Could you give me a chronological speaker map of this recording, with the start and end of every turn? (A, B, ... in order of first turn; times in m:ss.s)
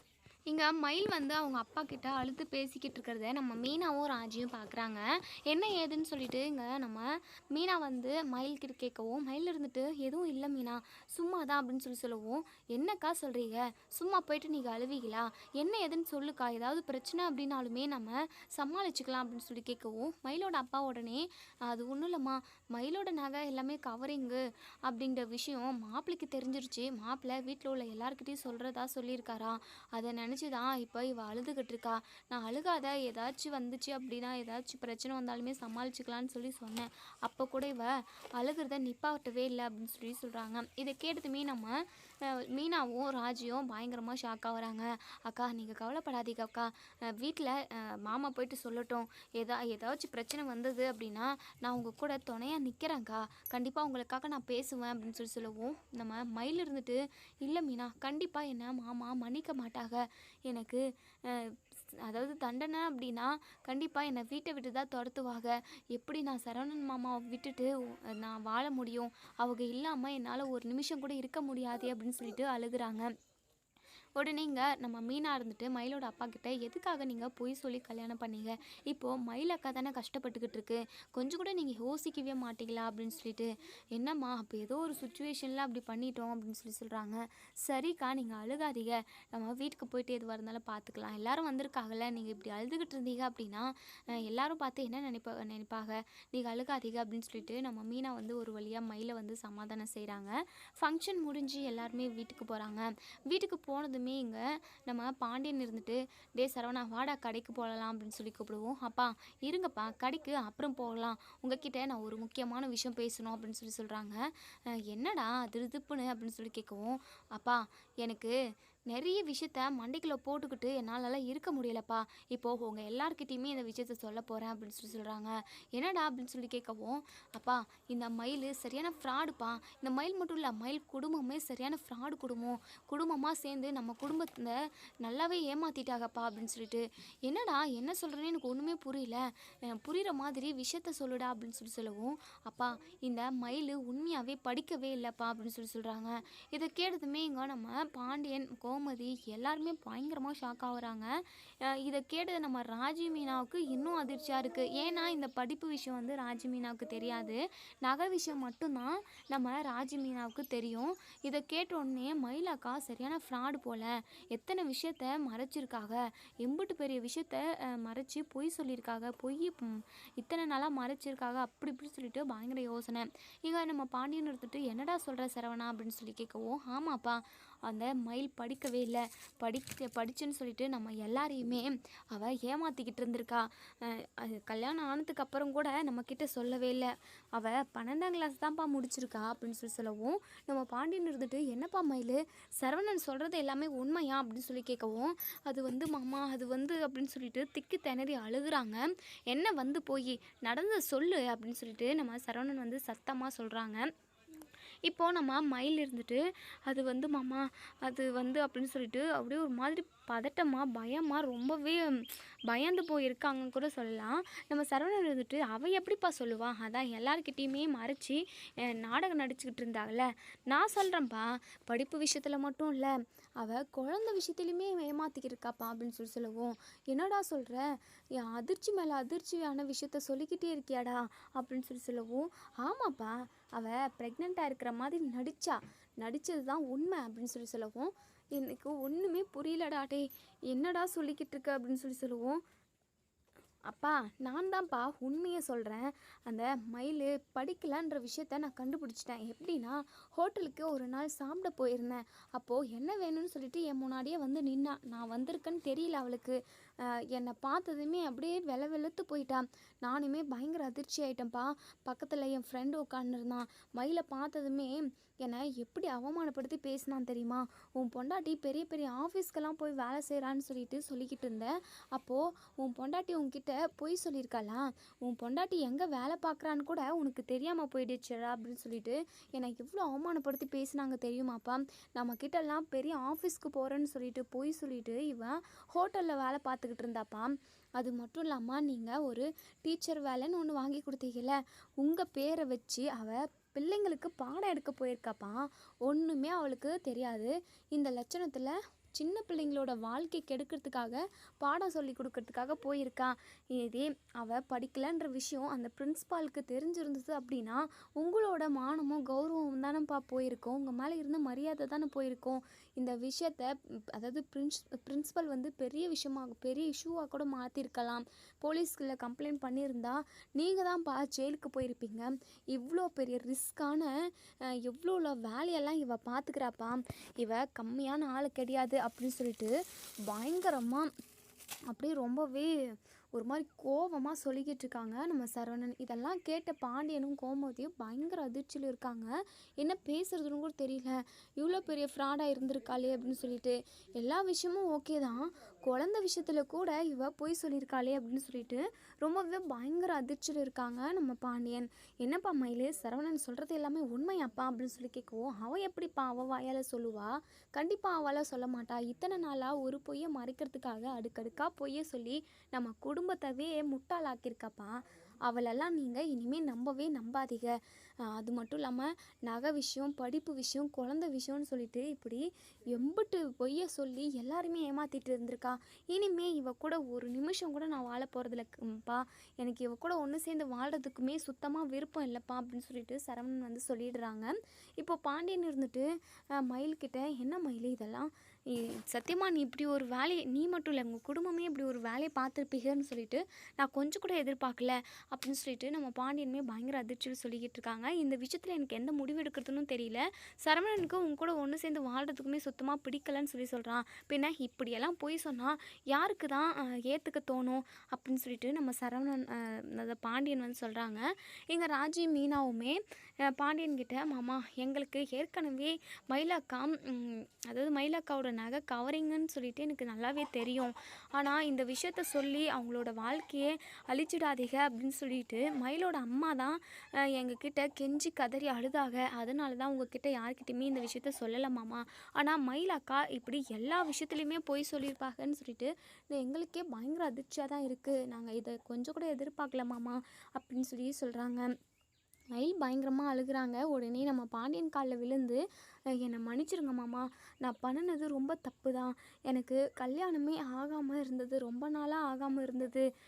0:00.5-1:13.1 A
1:14.2-1:58.3 A
1:58.9-2:31.1 A
2:31.6-3:23.9 A
3:24.9-3:47.6 A
3:48.2-4:02.4 A
4:03.7-5:23.9 A
5:24.5-5:29.5 A
5:30.1-5:30.9 A
5:31.7-5:32.5 A
5:33.1-7:21.5 A
7:22.3-7:25.4 A
7:26.0-7:32.9 A